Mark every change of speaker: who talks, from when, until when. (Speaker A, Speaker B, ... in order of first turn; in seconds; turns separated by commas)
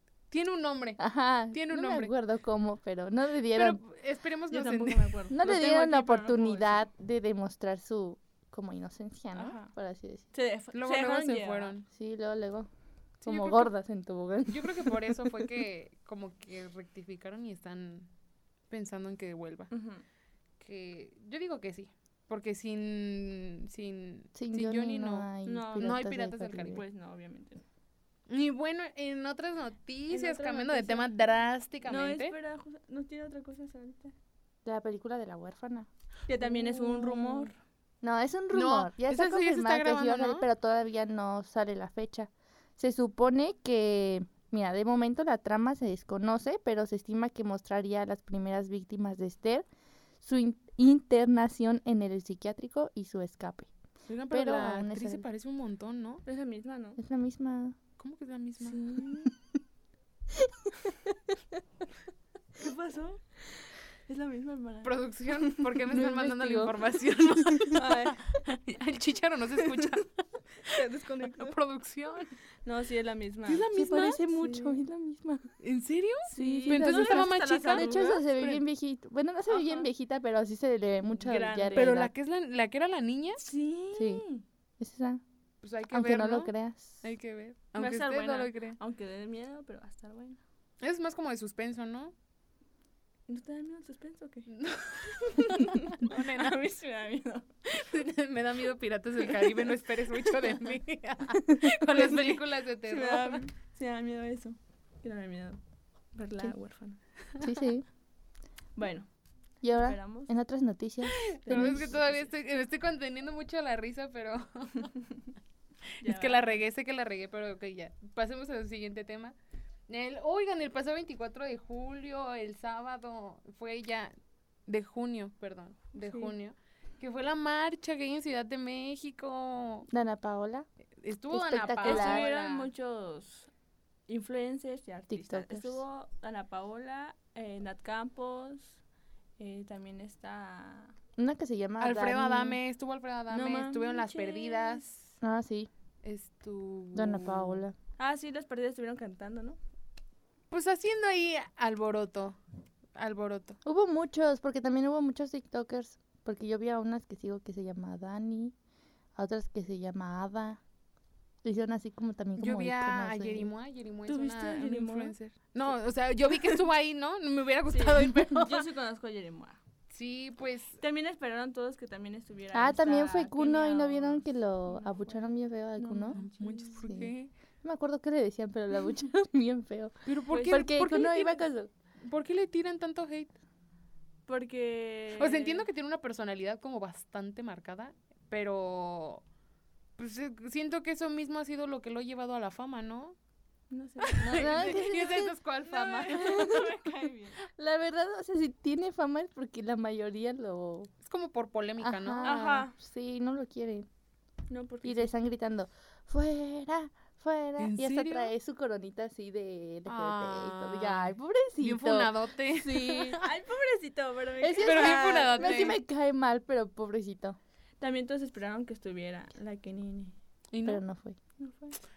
Speaker A: 0.3-1.0, Speaker B: 1.0-3.8, Speaker A: 1.5-2.1, Speaker A: 3.5-5.1, Speaker C: 4.5-6.8, Speaker B: 5.3-10.3, Speaker C: 9.3-9.7, Speaker C: 10.3-11.7, Speaker A: 10.7-11.8, Speaker B: 11.9-12.7, Speaker A: 13.2-13.7, Speaker B: 13.2-15.1, Speaker A: 14.5-18.1, Speaker A: 18.7-19.7, Speaker C: 19.7-20.0, Speaker A: 20.6-26.8, Speaker B: 24.3-26.8, Speaker C: 25.4-26.0, Speaker C: 26.7-27.6, Speaker A: 28.3-32.3, Speaker C: 30.1-31.1, Speaker C: 31.8-34.1, Speaker B: 34.6-35.9, Speaker C: 36.3-37.6, Speaker A: 36.4-37.5, Speaker B: 38.0-49.7, Speaker A: 38.5-40.4, Speaker B: 50.2-53.7, Speaker A: 54.1-56.2, Speaker B: 54.3-55.2, Speaker C: 56.2-57.0, Speaker B: 57.0-57.8, Speaker A: 58.0-58.8, Speaker C: 58.6-59.3, Speaker C: 62.6-63.2, Speaker C: 64.1-65.0, Speaker A: 64.8-70.1, Speaker B: 65.9-66.8, Speaker C: 67.7-68.2, Speaker C: 70.7-71.6, Speaker A: 71.3-72.3, Speaker C: 72.6-73.7, Speaker A: 73.4-74.2, Speaker B: 73.7-75.5, Speaker C: 74.3-74.8, Speaker A: 75.6-78.6, Speaker B: 76.3-82.1, Speaker C: 76.3-78.2, Speaker C: 79.5-79.9, Speaker C: 81.1-82.0, Speaker A: 81.7-83.4, Speaker C: 83.4-84.4, Speaker B: 83.9-84.2, Speaker B: 84.8-85.2, Speaker A: 85.6-88.8, Speaker B: 85.9-87.0, Speaker C: 87.8-90.4, Speaker A: 90.8-92.1, Speaker C: 93.3-94.5, Speaker A: 94.5-95.5, Speaker C: 95.0-97.5, Speaker A: 96.0-96.6, Speaker A: 97.7-103.4, Speaker C: 101.9-105.6, Speaker C: 106.1-107.0, Speaker B: 107.4-107.8, Speaker C: 108.8-109.1, Speaker B: 109.6-112.0, Speaker C: 109.7-110.3, Speaker A: 111.0-114.9, Speaker C: 111.5-112.3, Speaker C: 116.0-116.6, Speaker A: 116.0-119.3, Speaker A: 119.9-124.1, Speaker A: 124.7-129.9, Speaker C: 125.9-126.3, Speaker B: 129.9-130.7, Speaker A: 131.0-132.7, Speaker B: 131.3-132.2, Speaker C: 131.8-133.5, Speaker C: 134.1-138.8, Speaker B: 135.1-135.8, Speaker C: 139.4-140.9, Speaker B: 141.2-142.6, Speaker A: 141.8-145.1, Speaker C: 143.3-144.8, Speaker B: 145.2-145.7, Speaker A: 146.0-147.6, Speaker B: 146.9-147.7, Speaker C: 148.0-149.6, Speaker A: 150.5-152.4, Speaker A: 152.9-153.6, Speaker B: 153.6-158.5, Speaker B: 159.2-160.6, Speaker B: 161.4-163.5, Speaker A: 162.4-168.7, Speaker C: 164.0-165.1, Speaker C: 167.7-169.6, Speaker A: 169.9-170.8, Speaker C: 170.8-176.8, Speaker B: 172.5-176.2, Speaker A: 176.1-177.3, Speaker B: 176.8-181.7, Speaker A: 180.0-181.4, Speaker C: 180.3-180.7, Speaker A: 182.1-183.3, Speaker C: 184.3-185.7, Speaker A: 185.2-189.2, Speaker A: 190.0-193.1, Speaker C: 193.7-194.8, Speaker A: 194.2-196.6, Speaker B: 194.3-195.3, Speaker C: 195.6-197.4, Speaker B: 196.1-196.7, Speaker B: 197.6-200.9, Speaker A: 201.0-202.4, Speaker B: 201.8-203.9, Speaker C: 202.2-202.7, Speaker C: 204.5-205.1, Speaker B: 204.8-213.2, Speaker A: 207.6-208.3, Speaker A: 209.9-213.2, Speaker C: 213.2-215.8, Speaker B: 214.4-217.4, Speaker A: 214.6-215.8, Speaker C: 217.8-220.1, Speaker A: 220.5-220.8, Speaker B: 220.6-221.2, Speaker C: 221.4-221.8